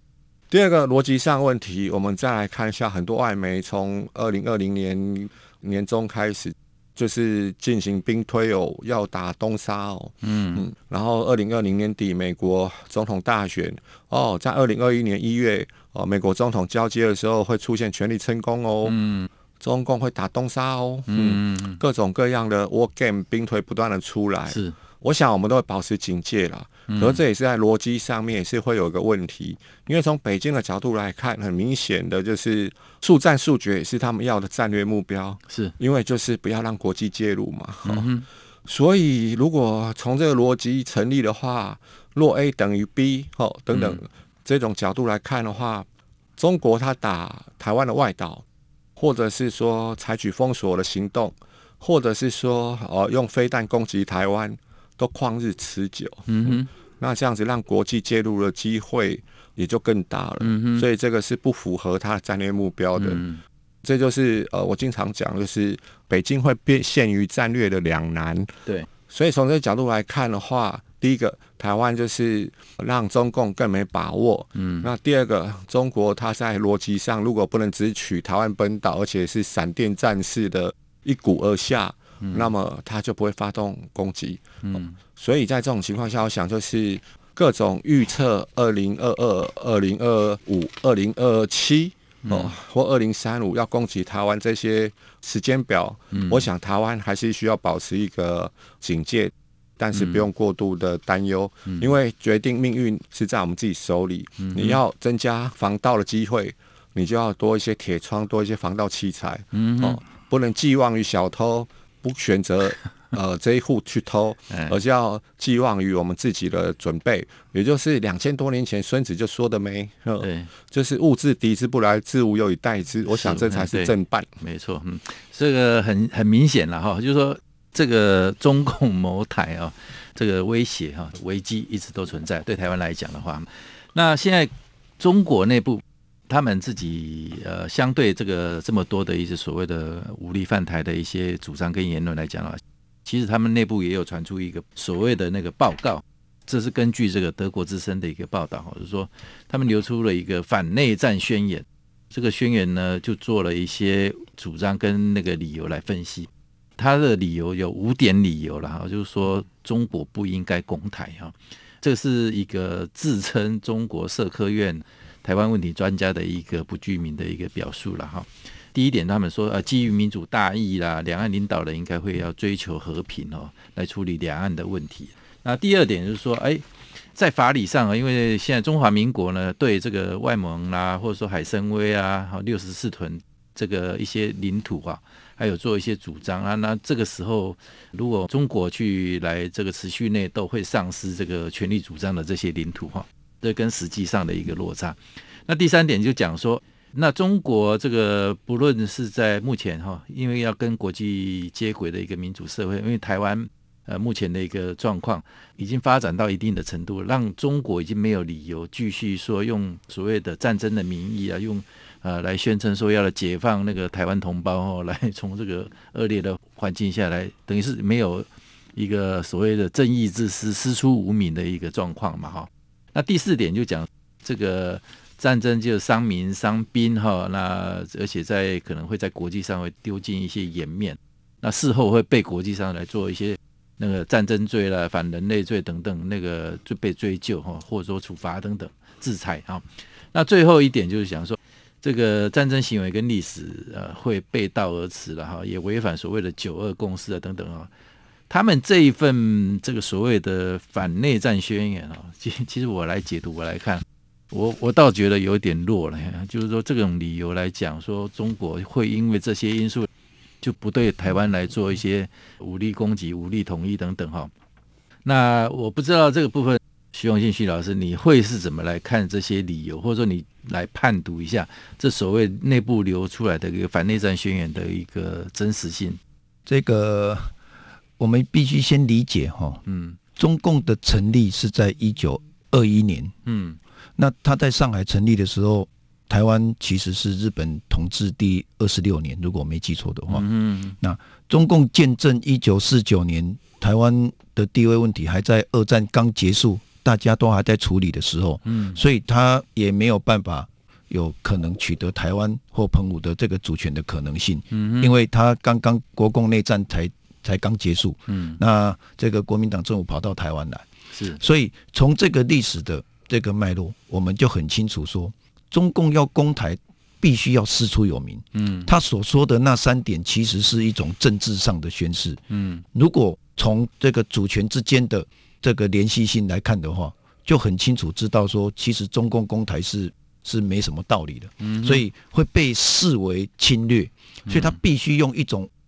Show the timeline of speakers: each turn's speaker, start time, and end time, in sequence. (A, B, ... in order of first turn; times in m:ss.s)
0:00.5-0:19.0 A
0:10.2-0:10.6 B
0:18.8-0:19.3 B
0:19.6-0:38.1 A
0:21.1-0:21.8 B
0:24.5-0:24.8 B
0:26.9-0:27.2 B
0:35.5-0:35.7 B
0:37.8-0:38.2 B
0:38.7-0:45.8 A
0:43.7-0:44.0 B
0:46.4-0:48.4 A
0:49.0-1:03.2 A
0:56.3-0:56.7 B
1:00.4-1:00.8 B
1:03.0-1:03.4 B
1:03.8-1:08.5 A
1:09.1-1:24.6 A
1:14.6-1:14.9 B
1:22.2-1:22.5 B
1:24.6-1:24.9 B
1:25.2-2:04.3 A
1:32.2-1:32.5 B
1:36.1-1:36.5 B
1:39.9-1:40.2 B
1:44.4-1:44.8 B
1:49.5-1:50.0 B
1:54.5-1:54.8 B
2:00.2-2:00.5 B
2:03.1-2:56.6 B
2:57.1-4:07.7 B
4:08.3-4:19.9 B
4:20.4-4:24.3 B
4:25.0-4:36.0 B
4:36.4-4:37.3 C
4:38.0-4:39.6 C
4:39.6-4:40.0 B
4:40.2-4:43.1 C
4:43.2-4:43.6 B
4:44.0-4:50.3 C
4:50.1-4:50.8 B
4:50.8-5:22.2 C
4:58.4-4:58.8 B
5:04.5-5:04.9 B
5:08.1-5:08.4 B
5:10.9-5:11.2 B
5:18.3-5:18.7 B
5:22.3-5:22.6 B
5:22.7-5:35.5 C
5:31.4-5:31.8 B
5:34.3-5:34.6 B